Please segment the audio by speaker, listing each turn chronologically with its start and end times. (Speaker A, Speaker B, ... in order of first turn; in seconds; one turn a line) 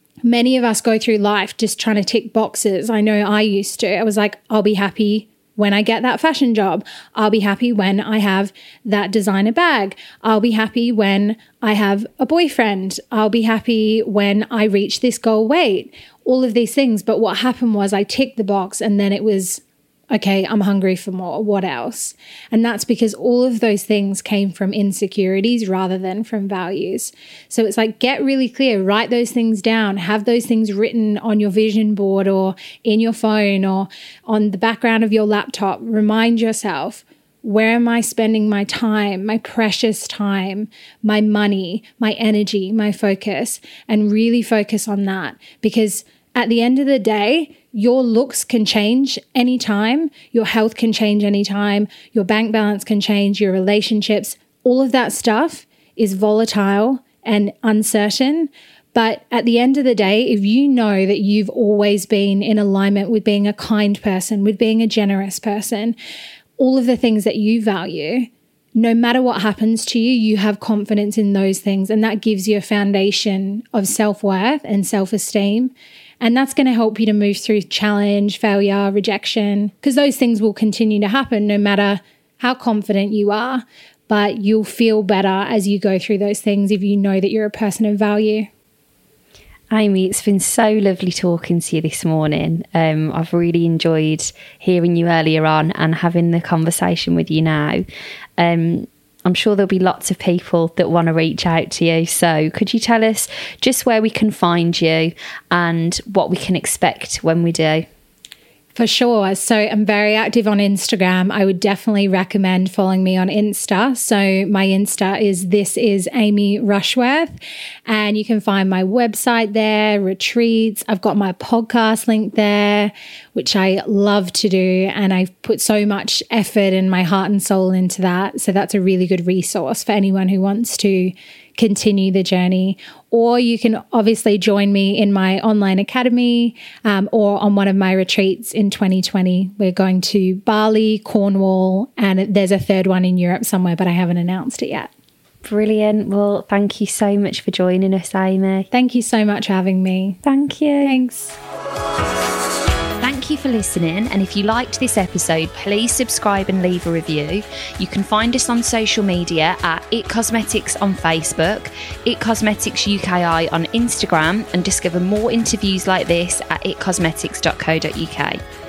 Speaker A: 0.2-66.0
Speaker A: 66.6-88.5
Speaker B: 89.7-97.8
Speaker B: 98.4-107.8
Speaker A: 108.7-117.3
Speaker A: 117.9-144.9
Speaker B: 145.4-148.7
Speaker A: 148.7-150.2
Speaker B: 150.2-151.0
Speaker A: 150.8-151.4
Speaker B: 153.0-168.4